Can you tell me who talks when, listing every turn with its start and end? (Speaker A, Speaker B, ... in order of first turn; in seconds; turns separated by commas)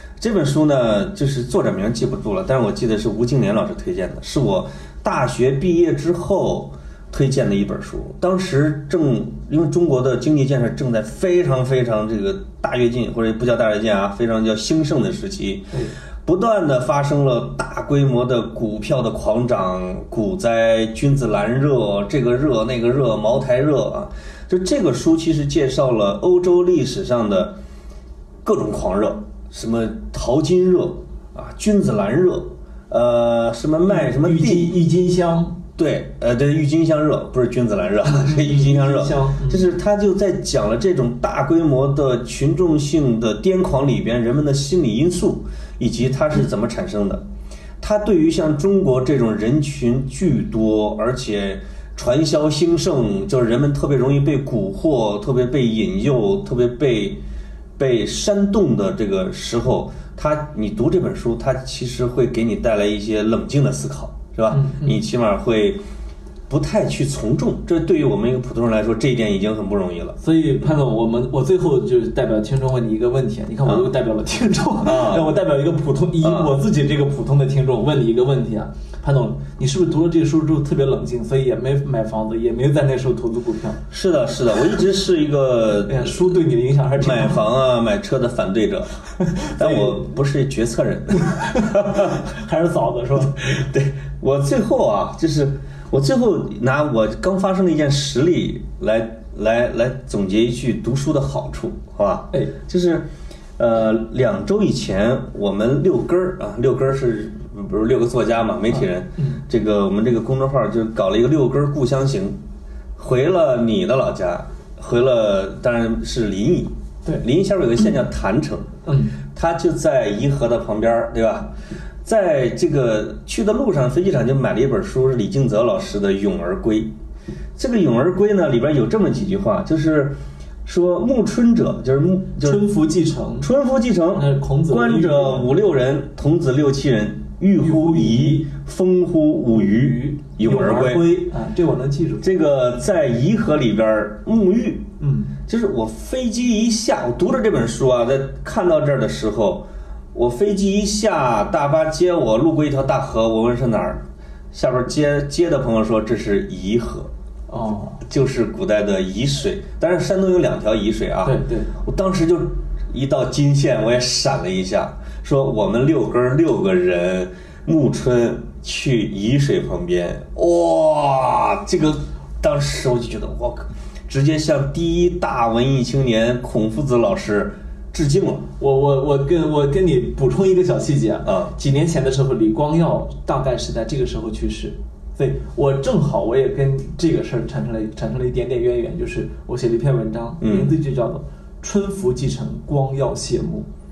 Speaker A: 0.2-27.6, Speaker A: 28.4-34.8, Speaker B: 33.9-35.6, Speaker A: 35.8-47.2, Speaker B: 38.0-39.7, Speaker A: 47.8-57.2, Speaker A: 57.8-65.8, Speaker B: 64.5-65.0, Speaker A: 66.5-70.2, Speaker B: 70.2-83.8, Speaker A: 74.8-75.3, Speaker A: 76.2-76.6, Speaker A: 83.9-86.4, Speaker B: 85.8-87.4, Speaker A: 87.0-88.9, Speaker B: 89.2-90.0, Speaker A: 89.6-92.2, Speaker B: 91.2-93.4, Speaker A: 93.3-112.4, Speaker B: 108.7-109.4, Speaker A: 113.0-121.5, Speaker B: 118.8-119.2, Speaker A: 122.0-126.9, Speaker A: 127.5-132.7, Speaker B: 132.4-133.5, Speaker A: 133.4-141.2, Speaker B: 134.1-135.5, Speaker B: 137.6-138.5, Speaker B: 139.5-142.3, Speaker A: 142.2-144.9, Speaker B: 145.0-145.4, Speaker A: 145.5-157.1, Speaker B: 157.5-158.0, Speaker A: 158.0-178.5, Speaker B: 161.2-161.7, Speaker B: 178.6-193.7, Speaker A: 181.2-181.5, Speaker A: 190.4-190.7